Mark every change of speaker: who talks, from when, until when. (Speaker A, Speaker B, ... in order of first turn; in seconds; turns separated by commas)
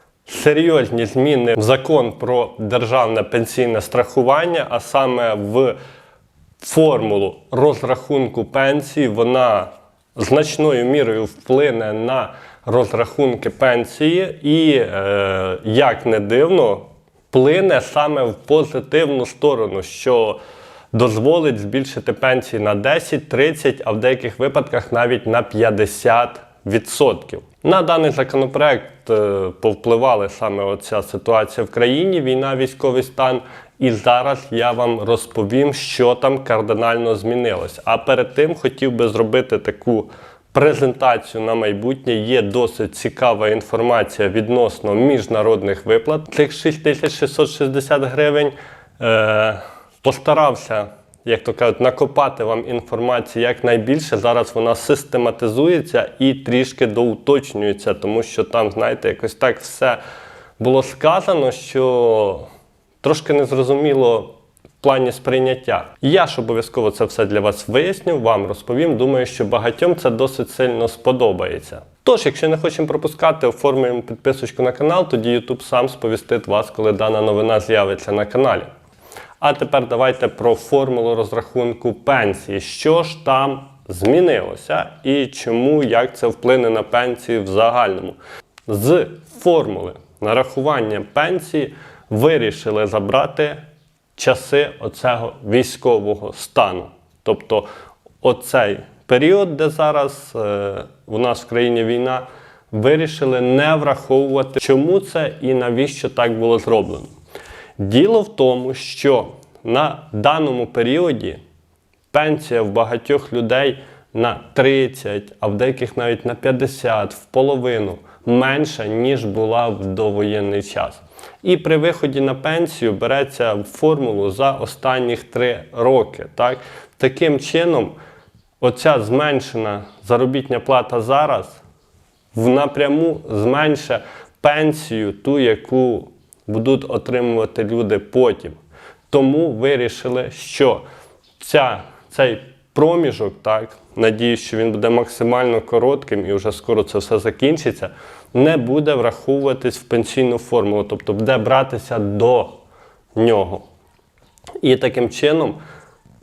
Speaker A: 0.3-5.8, Speaker A: 6.6-20.4, Speaker A: 20.9-60.0, Speaker A: 60.6-62.5, Speaker A: 63.0-78.7, Speaker A: 79.4-93.6, Speaker A: 94.2-97.7, Speaker A: 98.2-107.1, Speaker A: 107.8-111.4, Speaker A: 112.1-128.0, Speaker A: 128.6-131.6, Speaker A: 132.3-138.6, Speaker A: 139.1-140.8, Speaker A: 141.4-152.6, Speaker A: 153.2-153.7, Speaker A: 154.6-155.6